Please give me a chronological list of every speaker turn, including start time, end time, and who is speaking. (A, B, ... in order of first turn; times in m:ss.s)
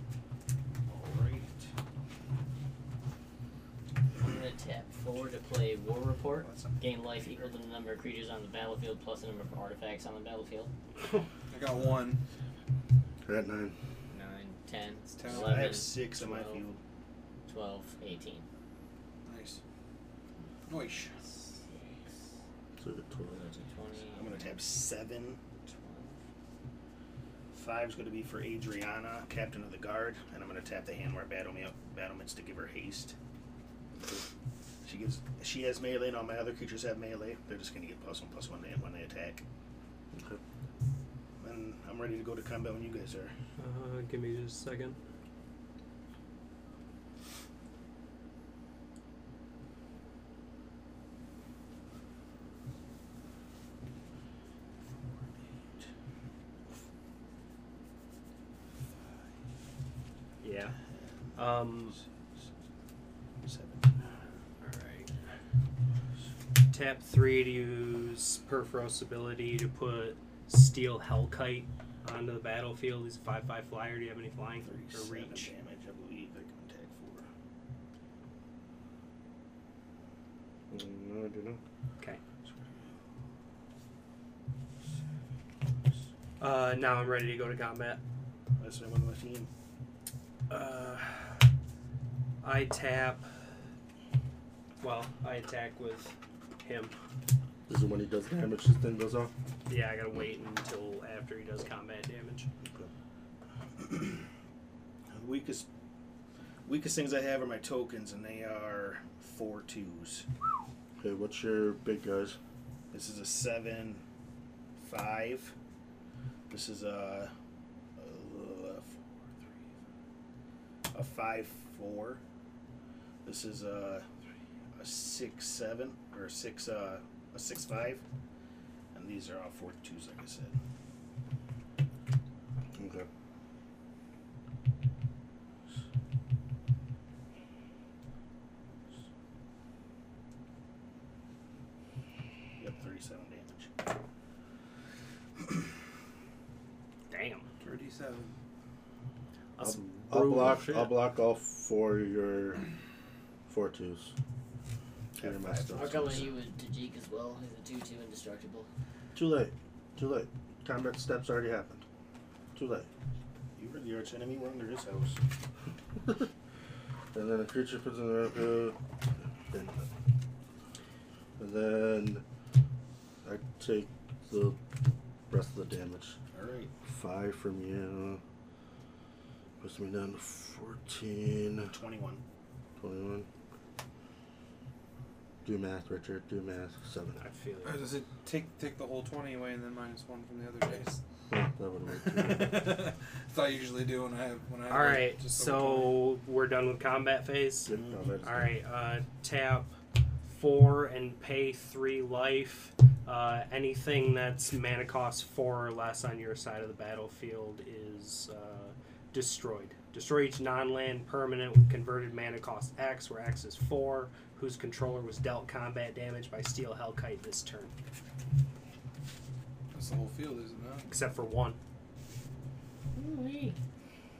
0:00.8-0:01.7 A
0:04.2-0:10.7 B
0:06.4-0:06.8 C
0:11.5-0:12.2 C
0:13.2-0:13.7 D
0:14.1-0:16.6 B
0:15.2-0:15.9 C
0:15.3-0:16.8 A
0:17.5-0:18.4 B
0:19.2-0:19.6 C
0:20.7-0:21.1 C
0:21.2-0:22.2 B
0:22.8-0:23.4 D
0:23.3-0:24.6 B
0:24.1-0:25.4 A
0:25.6-0:26.2 B
0:27.5-0:33.1 A
0:34.8-0:39.4 A
0:40.1-0:40.4 D
0:41.4-0:43.3 A
0:43.6-0:45.0 E
1:00.4-1:00.8 E
1:00.9-1:02.0 A
1:01.4-1:02.0 E
1:03.4-1:04.2 A
1:04.6-1:05.1 E
1:06.7-1:15.5 E
1:14.6-1:17.2 A
1:20.7-1:21.6 D
1:26.4-1:28.0 E
1:28.6-1:29.5 A
1:30.5-1:31.3 E
1:32.4-1:33.3 E
1:34.8-1:36.9 E
1:37.7-1:39.3 D
1:39.7-1:42.5 E
1:42.6-1:42.9 D
1:43.8-1:44.1 A
1:45.1-1:45.6 A
1:46.6-1:50.3 A
1:51.0-1:52.4 D
1:52.9-1:54.0 A
1:54.8-1:55.5 A
1:56.5-1:57.3 A
1:58.0-1:59.0 A
2:00.9-2:02.2 A
2:03.2-2:04.0 A
2:04.8-2:08.0 A
2:08.9-2:10.6 A
2:12.7-2:13.1 D
2:22.6-2:23.7 A
2:27.1-2:27.4 E
2:27.6-2:28.3 C
2:29.6-2:31.0 E
2:29.6-2:32.6 D
2:33.5-2:34.1 D
2:35.2-2:36.4 D
2:35.2-2:36.3 A
2:35.7-2:38.7 B
2:39.1-2:41.8 D
2:42.5-2:42.9 D
2:43.6-2:45.2 A
2:47.1-2:48.8 D
2:49.5-2:49.8 D
2:51.4-2:52.2 D
2:53.2-2:56.2 D
2:56.3-2:56.7 A
2:56.8-2:58.2 D
2:59.6-3:01.7 D
3:01.7-3:02.2 A
3:02.8-3:03.3 D
3:05.4-3:07.2 D
3:07.2-3:07.9 E
3:07.6-3:11.0 C
3:11.3-3:12.8 D
3:12.0-3:16.0 C
3:14.7-3:19.7 E
3:17.6-3:18.6 D
3:17.7-3:18.0 A
3:20.3-3:37.7 E
3:39.7-3:41.0 C
3:40.9-3:41.6 E
3:42.9-3:43.6 B